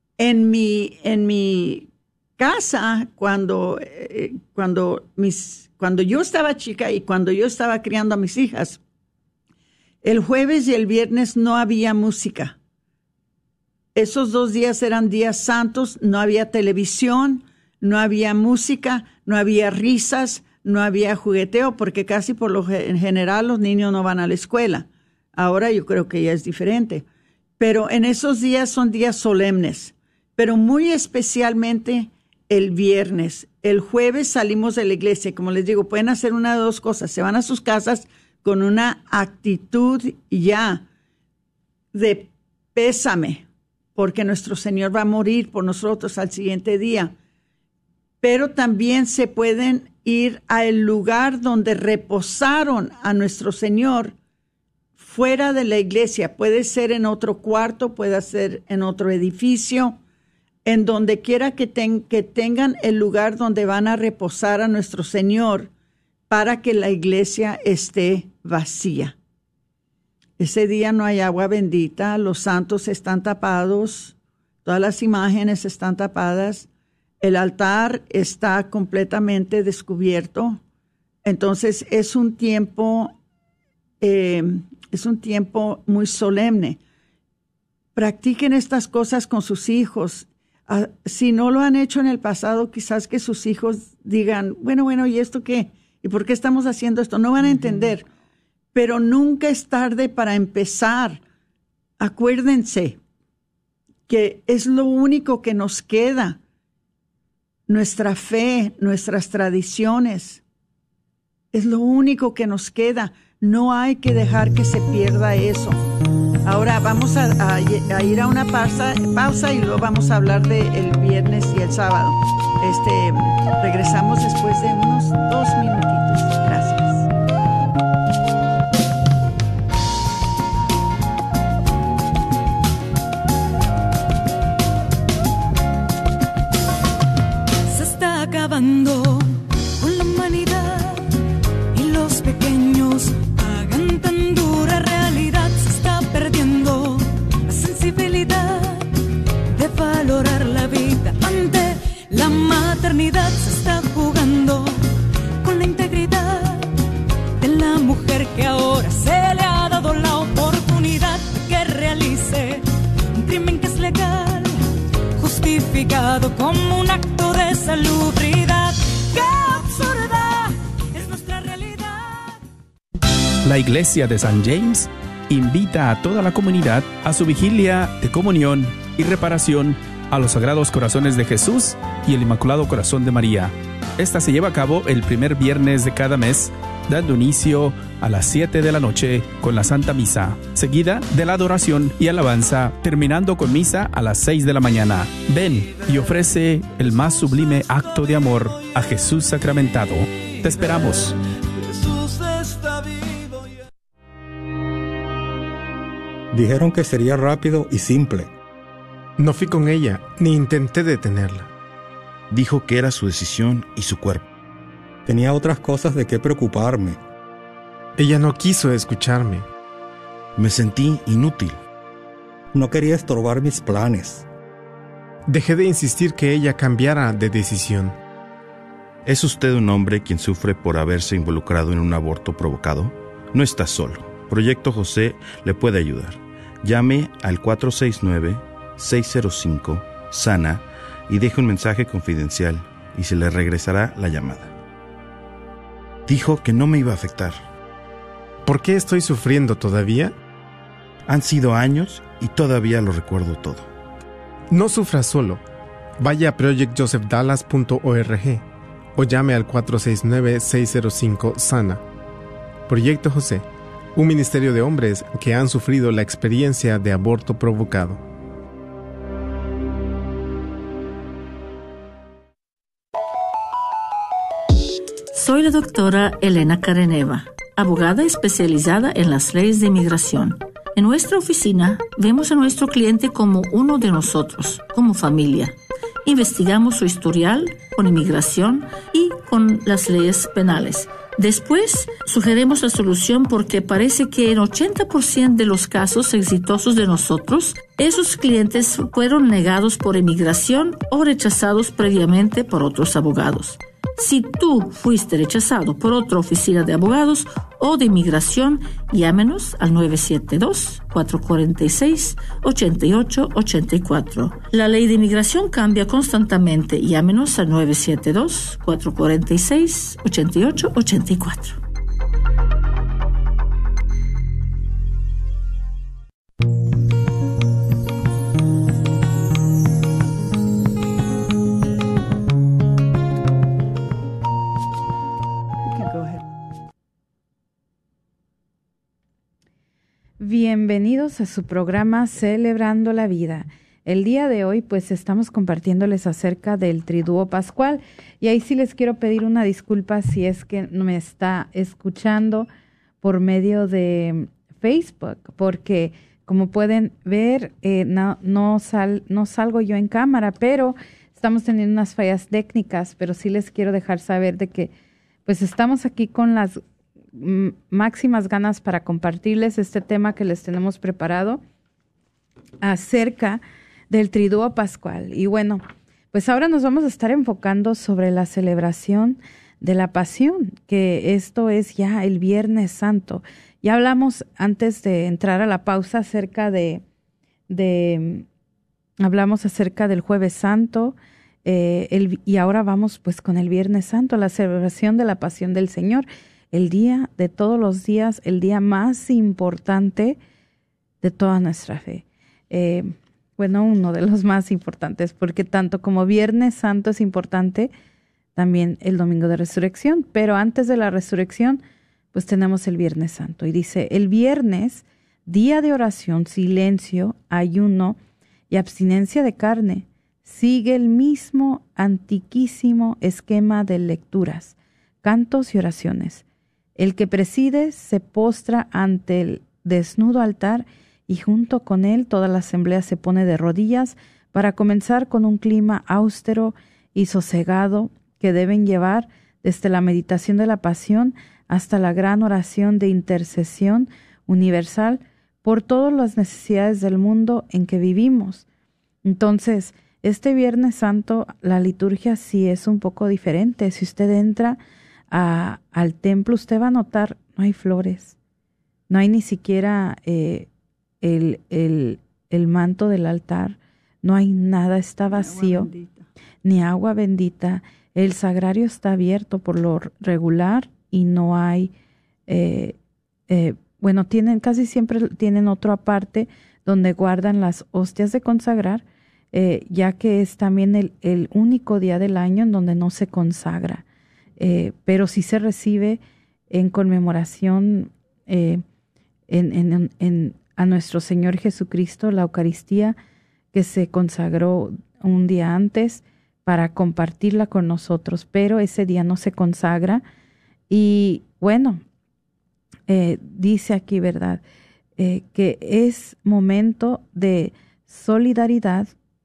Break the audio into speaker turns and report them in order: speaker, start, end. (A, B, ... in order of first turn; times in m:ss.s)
0:00.2-0:08.8 A
0:10.0-0:12.6 A
0:14.0-0:27.0 A
0:27.6-0:40.9 A
0:41.9-0:47.1 A
0:48.2-0:54.1 A
0:55.0-1:00.0 A
1:00.6-1:05.7 A
1:06.3-1:09.2 A
1:10.4-1:16.7 A
1:17.2-1:20.6 A
1:21.2-1:23.2 A
1:24.0-1:26.8 A
1:28.0-1:38.1 A
1:38.7-1:41.2 A
1:42.0-1:43.0 A
1:44.1-1:46.4 A
1:47.7-1:50.4 A
1:51.5-1:55.8 A
1:56.4-2:07.1 A
2:17.7-2:21.1 B
2:21.7-2:28.9 B
2:29.5-2:34.9 B
2:35.4-2:36.7 B
2:37.4-2:44.6 B
2:45.2-2:52.4 B
2:53.4-3:21.2 C
3:26.3-3:28.4 D
3:29.2-3:31.5 E
3:32.6-3:33.4 F
3:35.1-3:37.0 D
3:38.0-3:39.5 E
3:40.5-3:41.6 F
3:42.5-3:44.3 D
3:45.3-3:48.0 E
3:49.1-4:00.6 F
4:01.1-4:04.5 F
4:06.1-4:07.4 F
4:08.4-4:10.1 E
4:11.1-4:13.6 F
4:14.5-4:15.4 E
4:16.0-4:18.4 E
4:19.0-4:21.8 E
4:22.7-4:28.0 E
4:35.1-5:21.6 G
5:35.6-5:36.2 A
5:40.2-5:52.5 H
5:53.0-6:04.7 H
6:05.3-6:06.6 H
6:07.1-6:11.4 H
6:12.6-6:26.8 H
6:27.5-6:28.3 H
6:29.0-6:40.2 H
6:41.0-6:47.7 H
6:48.4-6:51.6 H
6:52.1-6:58.0 H
6:58.5-7:06.2 H
7:06.8-7:28.4 H
7:29.0-7:34.6 H
7:35.1-7:38.2 H
7:38.9-7:40.5 H
7:41.0-7:45.7 H
7:45.1-7:46.1 A
7:46.4-7:51.7 H
7:52.3-7:52.8 H
7:53.3-8:03.8 H
8:04.4-8:08.6 H
8:09.3-8:13.0 H
8:13.5-8:20.0 H
8:20.7-8:21.8 H
8:22.9-8:24.4 H
8:25.0-8:28.9 H